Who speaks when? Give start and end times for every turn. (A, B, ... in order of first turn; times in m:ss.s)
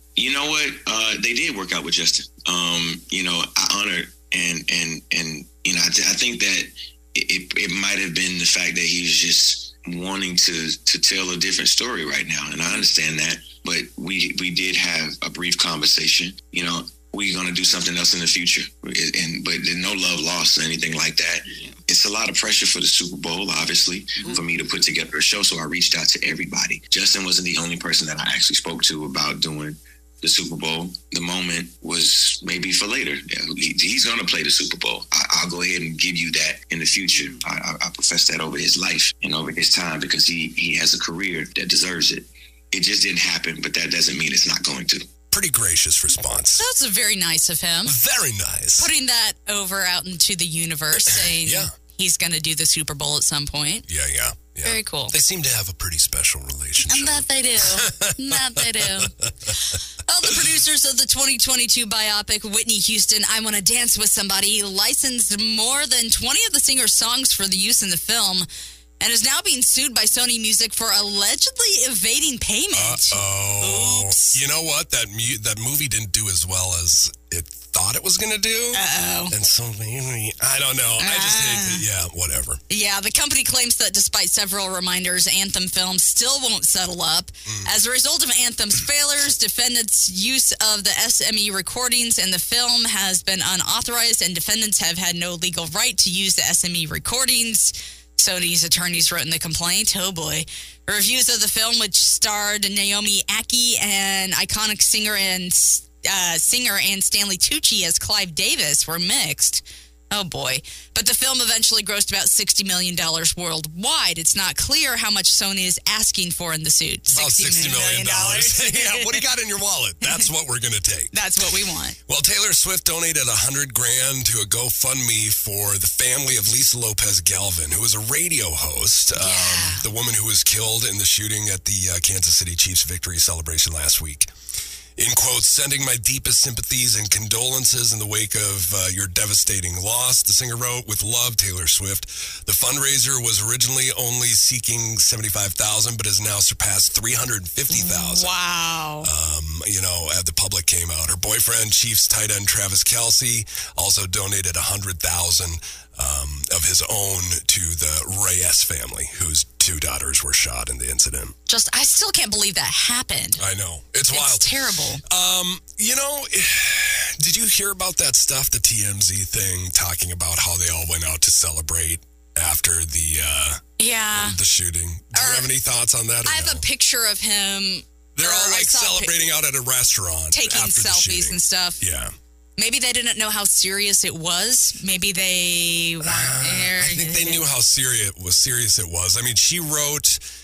0:00.2-0:45.1 A
0:45.3-0:46.7 B
0:46.6-0:48.0 C
0:47.8-0:48.9 B
0:48.8-0:53.9 C
0:51.1-0:51.7 B
0:53.9-0:59.6 B
0:54.6-0:55.2 C
0:56.8-0:59.1 C
0:59.7-1:08.5 C
1:09.0-1:14.4 C
1:12.7-1:22.6 B
1:18.7-1:19.4 C
1:21.0-1:21.8 C
1:22.7-1:59.3 C
1:27.5-1:27.7 B
1:57.1-2:01.2 B
2:01.1-2:02.0 C
2:02.1-2:14.3 B
2:09.2-2:09.9 C
2:15.0-2:28.4 B
2:27.7-2:29.1 C
2:29.0-2:41.4 B
2:41.5-2:43.4 C
2:43.4-2:44.5 B
2:44.1-2:45.0 C
2:45.0-2:53.6 B
2:53.8-2:54.4 C
2:54.1-2:56.6 B
2:55.1-2:55.5 C
2:56.2-2:59.3 C
2:58.2-3:02.1 B
3:00.3-3:01.8 C
3:02.6-3:07.4 C
3:06.0-3:10.2 B